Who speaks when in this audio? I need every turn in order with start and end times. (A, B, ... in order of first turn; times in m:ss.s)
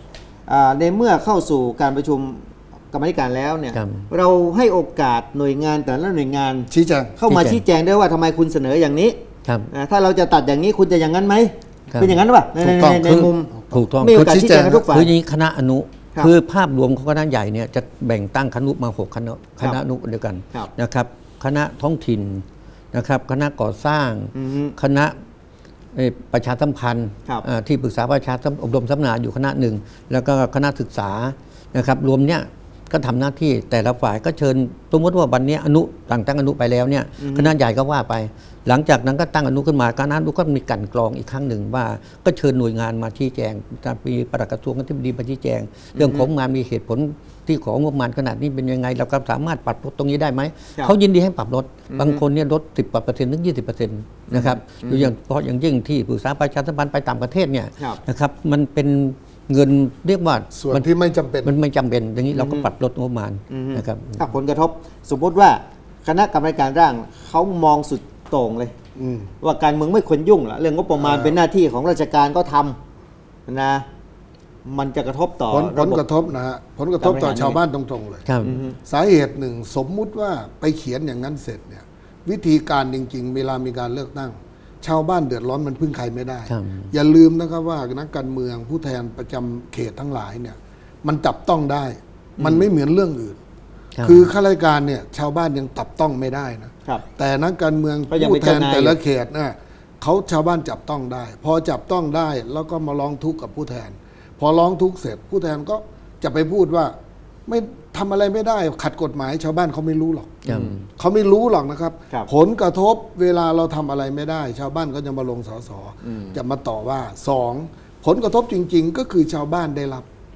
0:00.5-0:09.2 A
0:03.7-0:04.1 B
0:06.7-0:07.2 C
0:07.3-0:07.6 B
0:09.7-0:15.1 A
0:11.9-0:12.2 B
0:12.6-0:14.9 C
0:12.9-0:25.2 B
0:24.3-0:24.8 A
0:25.9-1:00.8 B
0:37.2-0:37.5 A
0:45.9-0:46.3 A
0:51.9-0:52.2 A
0:54.3-0:55.1 A
1:00.5-1:01.5 C
1:01.4-1:04.2 B
1:02.4-1:02.7 A
1:03.5-1:08.7 A
1:09.0-1:09.3 C
1:09.4-1:12.8 A
1:11.0-1:11.4 C
1:13.5-1:13.8 A
1:14.6-1:16.0 A
1:15.5-1:18.2 C
1:17.0-1:17.6 A
1:18.2-1:18.6 B
1:18.4-1:18.8 A
1:18.8-1:33.4 C
1:26.5-1:26.9 B
1:32.4-1:32.7 A
1:34.0-1:34.3 B
1:34.0-1:46.9 C
1:38.1-1:39.0 A
1:47.4-1:50.4 C
1:50.4-1:50.8 A
1:50.4-1:50.8 B
1:51.0-2:00.0 C
1:56.0-1:56.4 A